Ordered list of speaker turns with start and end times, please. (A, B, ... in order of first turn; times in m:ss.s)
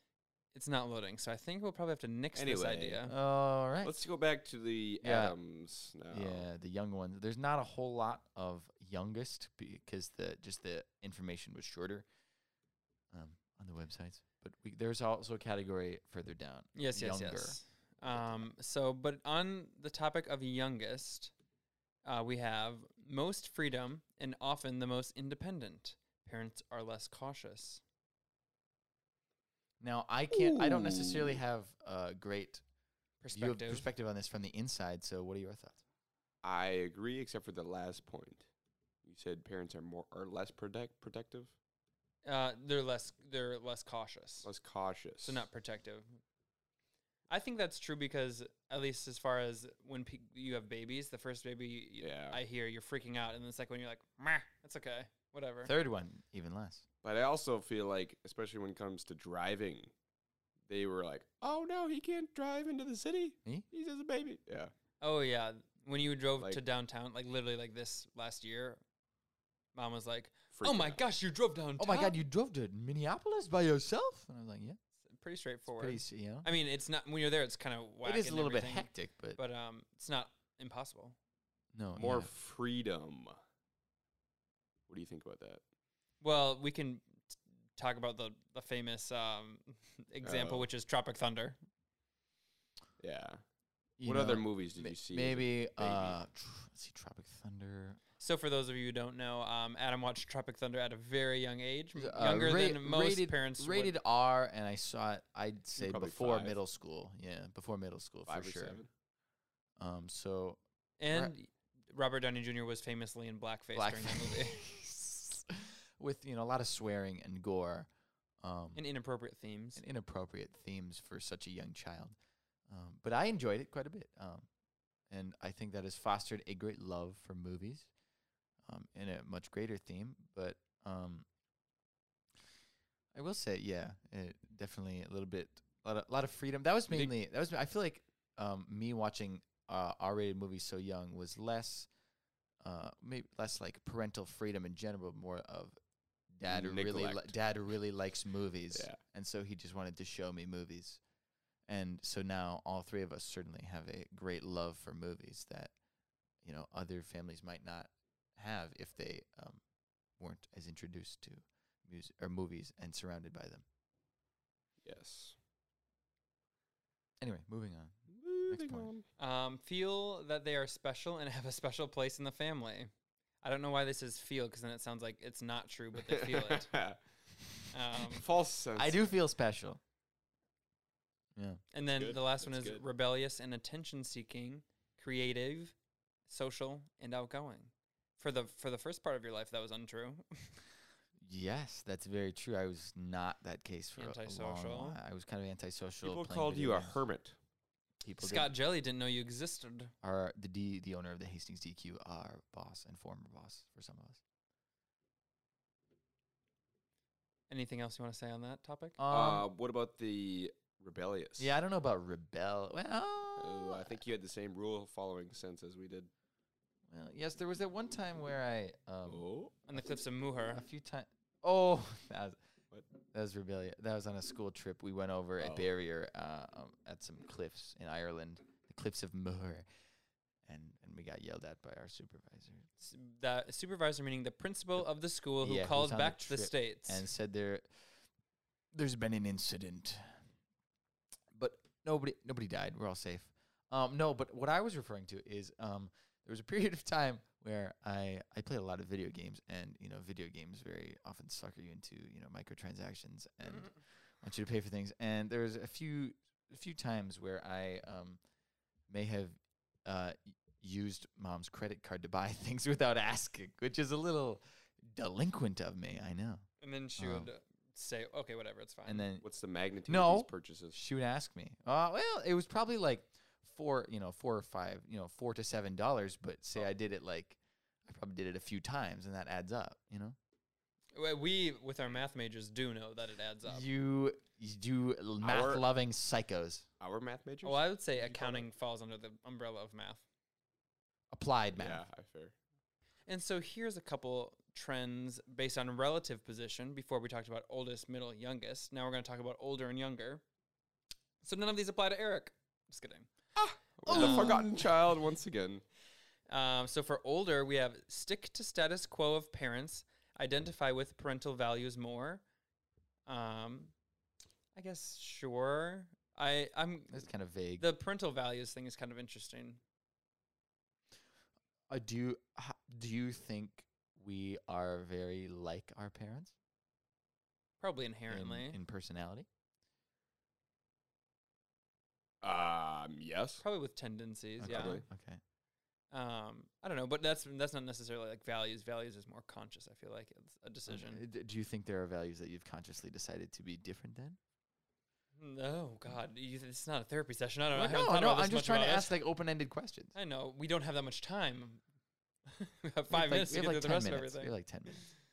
0:00.5-0:03.1 A
0:02.3-0:03.0 B
0:03.0-0:04.0 C
0:03.8-0:06.4 B
0:05.0-0:05.4 C
0:06.1-0:12.0 C
0:13.1-0:18.5 C
0:16.8-0:21.3 A
0:22.0-0:27.8 A
0:29.8-0:32.6 C
0:30.3-0:31.4 B
0:33.2-0:33.8 A
0:33.3-0:35.8 C
0:36.4-0:38.4 B
0:39.0-0:41.5 B
0:42.2-0:44.5 A
0:44.4-0:45.5 B
0:45.2-0:46.2 A
0:47.3-0:55.7 A
0:52.0-0:52.4 B
0:55.6-0:56.8 C
0:57.0-0:59.9 B
1:00.7-1:04.7 B
1:05.0-1:08.8 A
1:09.7-1:12.2 A
1:10.5-1:11.0 B
1:11.8-1:14.8 C
1:15.0-1:21.2 A
1:15.7-1:16.5 C
1:18.0-1:19.4 C
1:21.7-1:22.3 C
1:22.0-1:23.4 B
1:24.9-1:25.6 B
1:26.2-1:31.6 A
1:30.2-1:30.7 B
1:33.0-1:33.4 B
1:34.0-1:38.0 C
1:34.0-1:36.2 B
1:38.2-1:43.9 A
1:42.0-1:48.8 C
1:45.8-1:46.6 B
1:48.3-1:48.9 B
1:49.8-1:50.6 C
1:51.0-1:54.6 A
1:53.7-1:57.9 C
1:58.4-1:58.8 C
1:58.7-1:59.8 A
1:59.8-2:02.2 C
2:02.7-2:04.5 C
2:05.1-2:07.9 C
2:08.6-2:11.2 C
2:13.1-2:21.9 C
2:22.6-2:25.8 C
2:26.3-2:31.0 C
2:26.4-2:27.3 B
2:28.7-2:29.0 B
2:31.7-2:35.7 C
2:36.4-2:39.6 C
2:40.2-2:43.6 C
2:44.8-2:45.4 B
2:47.2-2:47.9 C
2:48.1-2:49.0 B
2:48.5-2:48.9 C
2:49.2-2:52.9 A
2:53.4-2:56.7 A
2:56.0-2:57.0 B
2:57.7-2:58.2 A
2:58.1-2:59.1 B
2:58.8-2:59.8 C
3:01.4-3:01.6 C
3:01.7-3:05.7 A
3:01.9-3:02.8 B
3:06.3-3:10.6 A
3:11.2-3:17.0 C
3:14.0-3:15.0 A
3:16.0-3:17.4 B
3:18.0-3:18.5 C
3:18.2-3:19.9 A
3:20.0-3:24.2 C
3:27.5-3:29.0 A
3:29.0-3:29.5 C
3:29.1-3:31.5 B
3:31.4-3:34.0 C
3:33.4-3:36.1 B
3:36.9-3:42.4 C
3:39.1-3:39.5 B
3:39.7-3:40.6 A
3:43.1-3:49.6 C
3:45.4-3:45.7 B
3:50.4-3:52.7 C
3:52.8-3:57.0 A
3:55.4-3:57.8 C
3:58.7-4:00.2 C
4:01.3-4:18.2 C
4:18.9-4:26.4 C
4:26.6-4:29.0 A
4:27.0-4:27.3 C
4:28.8-4:29.2 C
4:29.2-4:30.8 B
4:29.8-4:40.2 C
4:40.9-4:43.6 A
4:43.4-4:46.6 C
4:45.2-4:45.6 B
4:46.8-4:48.4 B
4:47.4-4:50.0 A
4:51.1-4:51.8 C
4:51.5-4:52.3 B
4:53.1-5:00.2 A
5:01.2-5:03.1 A
5:03.4-5:05.6 B
5:03.8-5:04.6 C
5:03.9-5:04.4 A
5:06.3-5:12.2 A
5:13.1-5:13.7 A
5:14.5-5:17.1 A
5:16.9-5:17.7 C
5:17.6-5:19.6 A
5:21.7-5:26.3 C
5:27.6-5:28.6 A
5:28.1-5:29.3 C
5:32.2-5:33.4 B
5:33.4-5:34.8 A
5:34.4-5:35.2 C
5:34.5-5:34.8 B
5:35.9-5:41.0 A
5:40.7-5:44.2 C
5:45.2-5:49.0 A
5:47.5-5:49.9 C
5:49.9-5:51.6 A
5:52.3-5:54.3 A
5:52.9-5:54.8 C